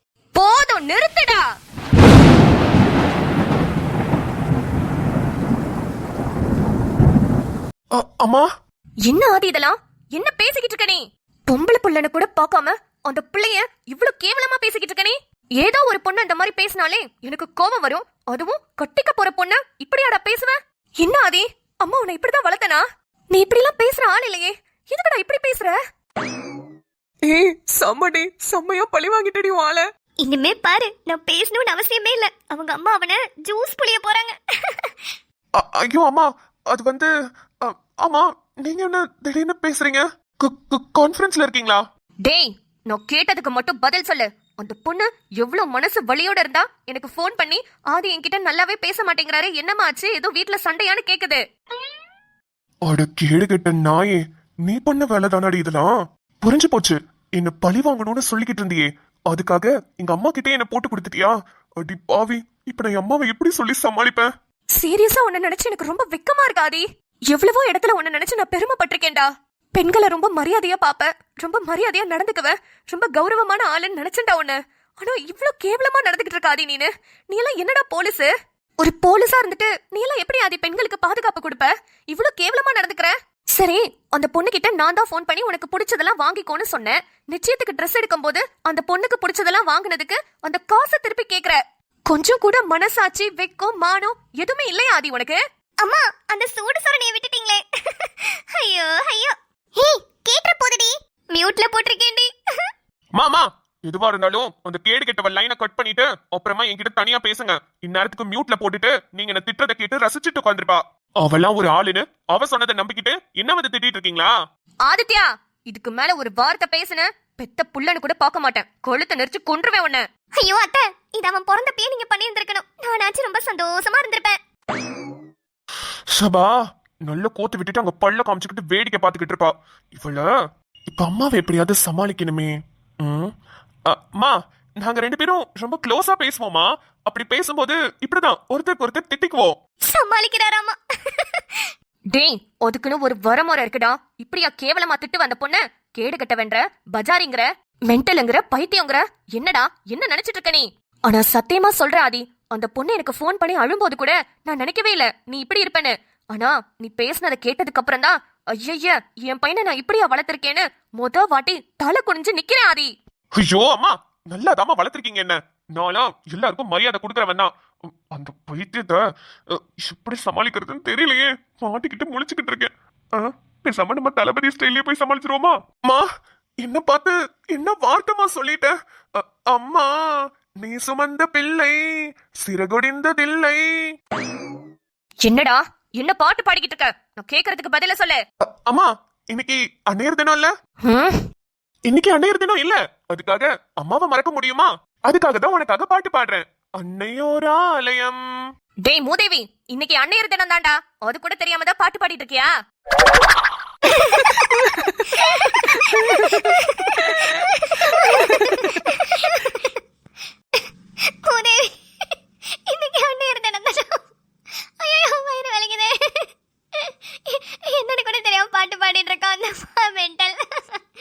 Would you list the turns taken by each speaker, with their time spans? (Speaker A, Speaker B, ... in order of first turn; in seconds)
Speaker A: 0.3-1.4, 9.1-25.8, 42.2-51.4, 64.8-78.3, 78.8-95.4, 114.8-120.0, 142.1-162.9, 185.2-188.2, 190.8-191.2, 198.8-202.5, 204.7-205.0
Speaker B: 7.9-8.5, 27.2-29.9, 35.6-37.1, 37.6-41.8, 52.9-64.3, 103.2-114.3, 126.1-130.3, 130.9-133.3, 133.9-139.6, 163.4-176.1, 176.6-183.9, 188.4-190.5, 191.9-198.2
Speaker C: 30.2-34.4, 95.8-102.3, 120.4-124.4, 139.9-141.4, 204.1-204.5, 205.2-209.7, 211.2-211.7, 212.7-214.0, 214.8-216.2, 217.3-220.8